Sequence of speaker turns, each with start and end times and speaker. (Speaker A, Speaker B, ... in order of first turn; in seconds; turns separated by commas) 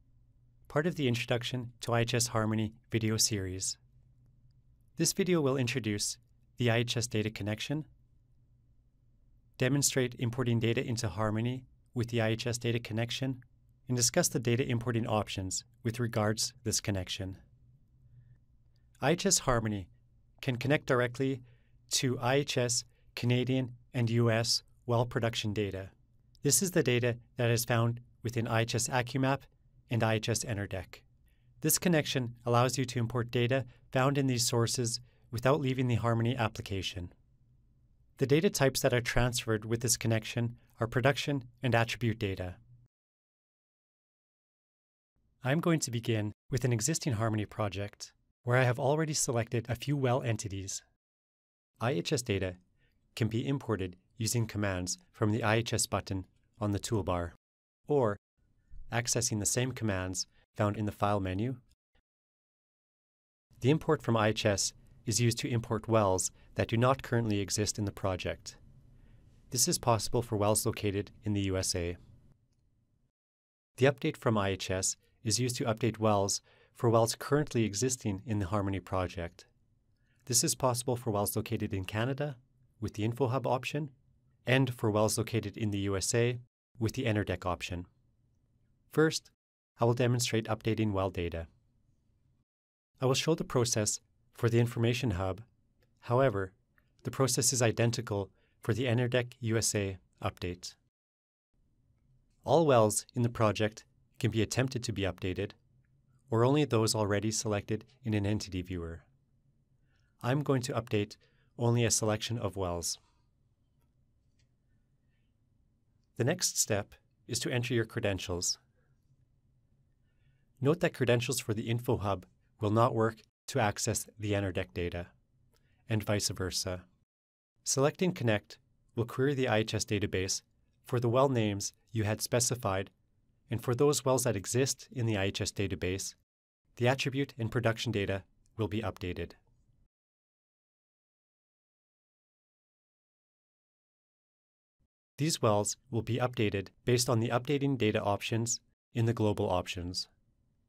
Speaker A: 0.7-3.8, Speaker A: 5.0-7.9, Speaker A: 9.6-17.4, Speaker A: 19.0-31.0, Speaker A: 31.6-37.1, Speaker A: 38.2-42.6, Speaker A: 45.4-50.8, Speaker A: 51.8-52.6, Speaker A: 53.1-57.4, Speaker A: 57.9-58.2, Speaker A: 58.9-61.6, Speaker A: 63.6-68.6, Speaker A: 69.5-72.0, Speaker A: 73.8-79.5, Speaker A: 80.2-83.9, Speaker A: 84.5-87.9, Speaker A: 88.9-91.5, Speaker A: 93.0-95.4, Speaker A: 96.0-100.8, Speaker A: 102.4-105.6, Speaker A: 106.3-109.0, Speaker A: 110.2-113.0, Speaker A: 116.2-118.6, Speaker A: 120.6-125.1, Speaker A: 125.9-126.8, Speaker A: 127.6-132.9, Speaker A: 133.5-136.2, Speaker A: 136.8-139.4, Speaker A: 145.2-150.1